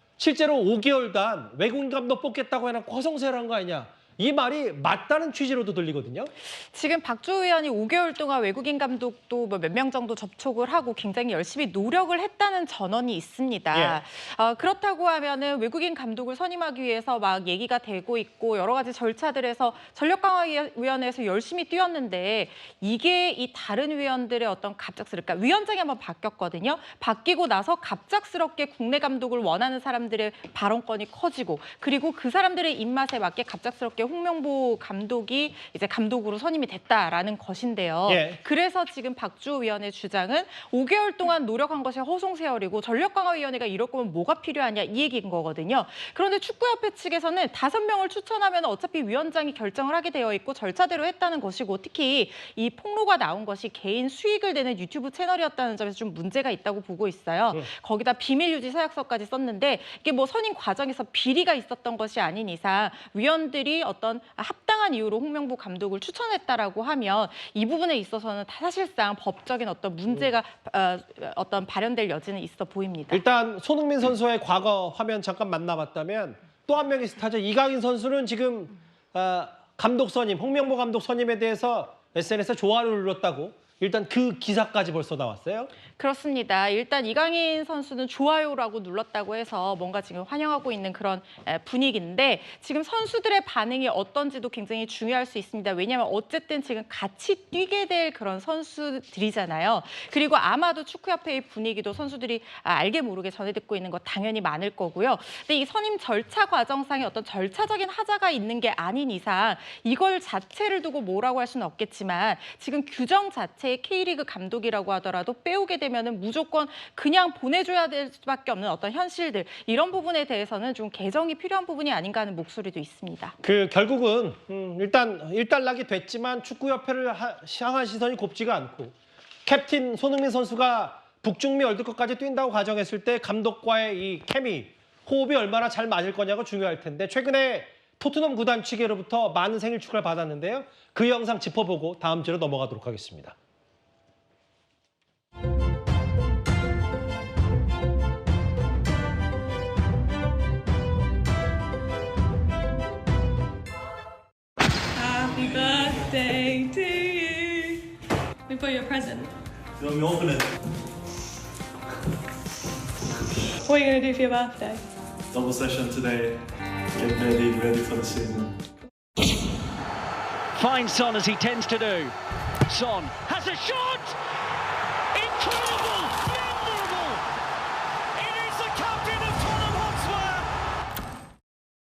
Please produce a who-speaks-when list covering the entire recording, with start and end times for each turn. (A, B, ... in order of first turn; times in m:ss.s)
0:00.2-0:06.3 A
0:06.4-1:13.2 B
0:13.7-0:14.0 A
0:38.1-0:38.4 A
1:10.1-1:10.3 A
1:13.1-1:25.7 A
1:25.9-2:03.4 B
2:03.4-2:08.9 A
2:09.4-2:23.3 A
2:34.9-2:37.8 C
2:38.5-2:39.3 C
2:39.8-2:40.5 D
2:43.6-2:44.8 C
2:45.3-2:48.6 D
2:50.5-2:52.1 E
2:52.7-2:54.2 E
2:55.1-2:57.2 E
2:58.2-3:00.5 E